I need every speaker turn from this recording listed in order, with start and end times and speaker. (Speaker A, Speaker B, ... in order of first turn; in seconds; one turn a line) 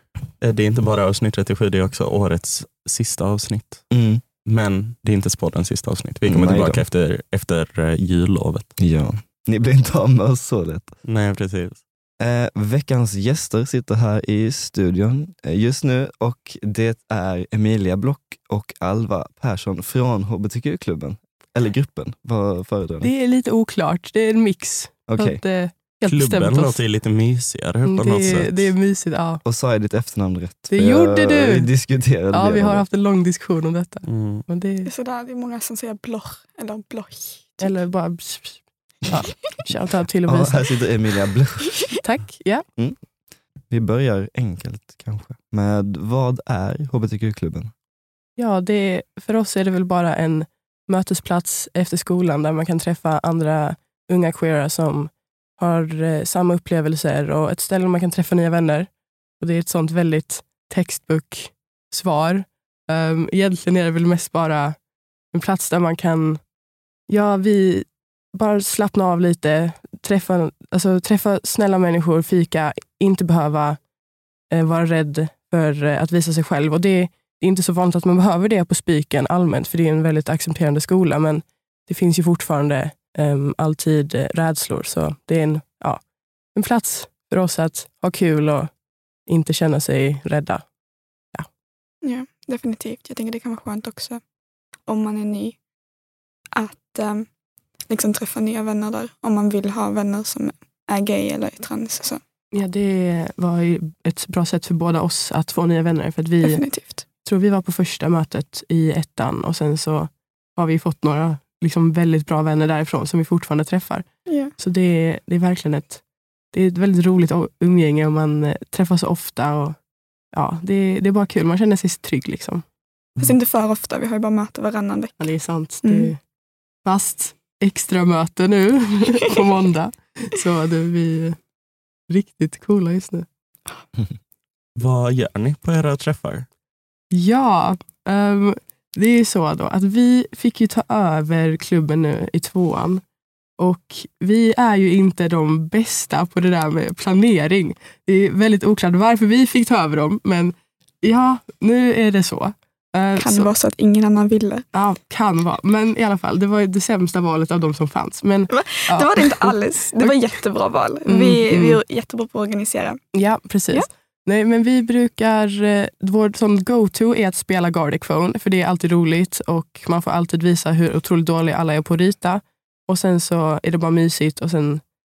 Speaker A: 0.4-3.9
Speaker B: 3.9-4.2
Speaker A: 4.5-8.7
Speaker B: 6.3-6.8
Speaker B: 8.8-10.9
Speaker A: 11.1-11.8
Speaker B: 12.2-23.1
Speaker C: 23.0-26.8
Speaker B: 25.1-25.4
Speaker A: 26.1-28.7
Speaker C: 27.8-29.4
Speaker B: 29.4-32.9
Speaker C: 30.7-31.7
Speaker C: 32.3-34.9
Speaker A: 34.1-34.5
Speaker D: 34.9-37.8
Speaker C: 37.6-40.6
Speaker B: 40.3-41.9
Speaker C: 42.0-42.6
Speaker B: 43.7-47.7
Speaker C: 48.4-64.8
Speaker C: 65.3-66.4
Speaker C: 67.1-73.8
Speaker C: 74.5-86.0
Speaker C: 86.5-88.7
Speaker C: 89.3-90.7
Speaker D: 92.0-94.2
Speaker D: 94.9-95.6
Speaker D: 96.5-97.3
Speaker D: 97.9-102.2
Speaker C: 102.5-106.6
Speaker D: 106.4-107.0
Speaker C: 107.2-114.1
Speaker D: 114.3-114.5
Speaker C: 114.6-116.0
Speaker C: 116.5-119.8
Speaker C: 120.3-122.7
Speaker D: 123.2-125.2
Speaker C: 125.2-126.2
Speaker D: 125.8-126.1
Speaker C: 126.8-131.4
Speaker C: 132.1-133.3
Speaker A: 134.8-136.5
Speaker C: 137.1-143.0
Speaker C: 143.6-153.5
Speaker D: 153.2-154.7
Speaker C: 154.7-160.2
Speaker D: 158.5-163.0
Speaker C: 161.1-161.8
Speaker C: 163.1-174.8